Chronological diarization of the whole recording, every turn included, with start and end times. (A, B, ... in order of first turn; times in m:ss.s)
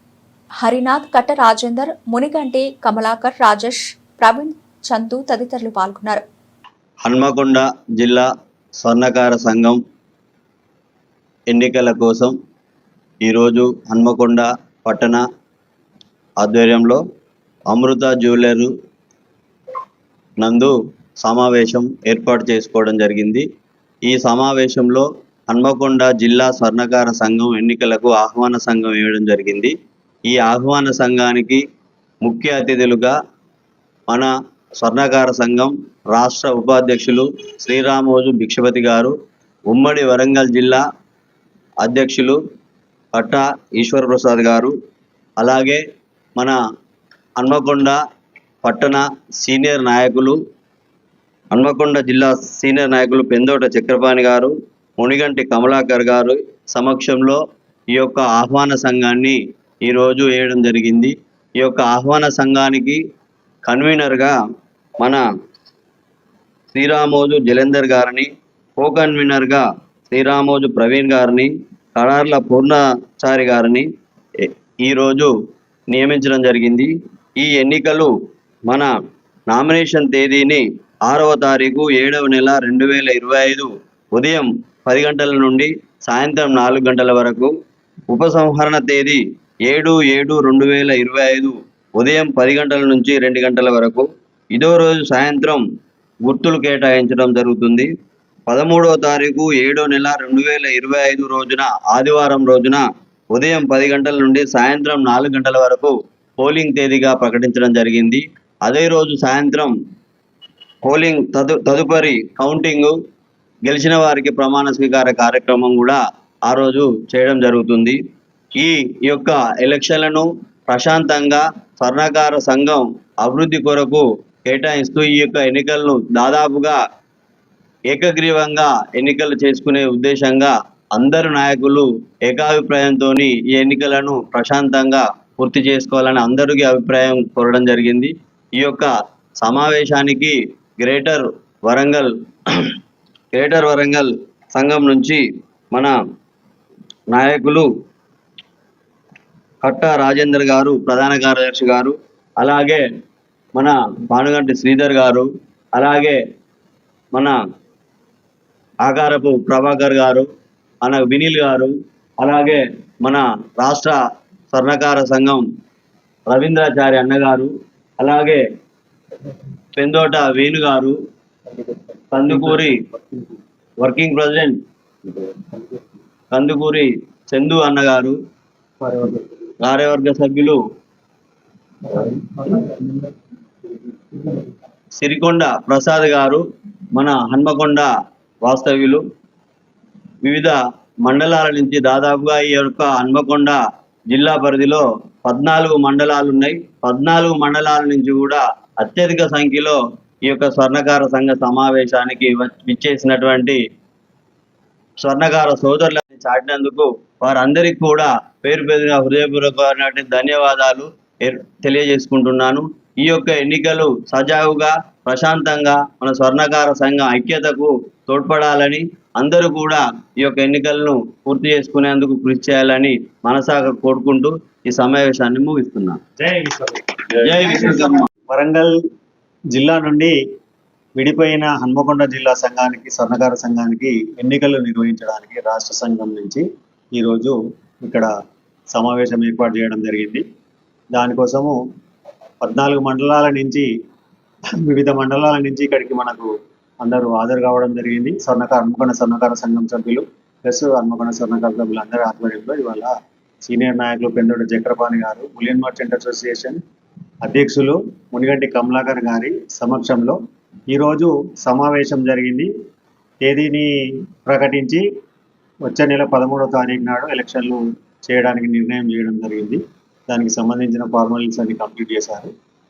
0:00.6-0:06.2 A
0:07.0-0:08.3 B
0:08.8-0:09.8 B
0:11.5-0:12.3 B
0:13.2-0:15.2 B
0:16.4-0:17.0 B
0:17.7-0:18.7 B
0:20.4-0:23.4 B
0:24.0-0:29.7 B
0:30.3-0:31.6 B
0:32.2-0:33.1 B
0:34.1-0:39.1 B
0:39.7-0:40.8 B
0:41.8-0:42.4 B
0:43.1-0:44.7 B
0:45.4-0:45.8 B
0:47.4-0:48.0 B
0:48.6-0:50.4 B
0:51.5-0:57.4 B
0:57.9-1:03.0 B
1:03.7-1:04.4 B
1:06.7-1:13.9 B
1:14.4-1:15.3 B
1:15.9-1:18.1 B
1:19.5-1:27.5 B
1:28.1-1:35.6 B
1:36.2-1:37.9 B
1:38.5-1:49.7 B
1:50.8-1:53.0 B
1:53.7-1:58.0 B
1:58.6-2:06.8 B
2:07.9-2:22.7 B
2:23.3-2:25.2 B
2:27.1-2:27.7 B
2:29.6-2:32.8 B
2:33.6-2:36.2 B
2:38.8-2:40.3 B
2:40.8-2:44.0 B
2:44.5-2:45.4 B
2:46.3-2:48.4 B
2:49.8-2:51.0 B
2:52.1-2:52.8 B
2:52.5-2:53.2 C
2:53.8-2:54.6 B
2:56.3-2:58.2 B
2:58.8-2:59.3 C
2:59.6-3:00.6 B
3:01.9-3:02.8 C
3:05.0-3:06.4 B
3:06.9-3:07.9 B
3:08.4-3:09.0 B
3:10.2-3:13.6 B
3:14.1-3:23.6 B
3:25.0-3:46.0 B
3:46.2-3:48.7 C
3:47.2-3:48.1 B
3:49.5-3:50.1 C
3:51.0-3:56.4 C
3:56.9-3:58.1 C
3:58.7-4:00.2 C
4:00.9-4:01.6 C
4:02.4-4:03.6 C
4:04.7-4:06.3 C
4:06.8-4:12.9 C
4:13.4-4:16.6 C
4:17.2-4:20.2 C
4:20.7-4:22.5 C
4:23.2-4:23.7 C
4:24.2-4:24.8 C
4:25.6-4:32.3 C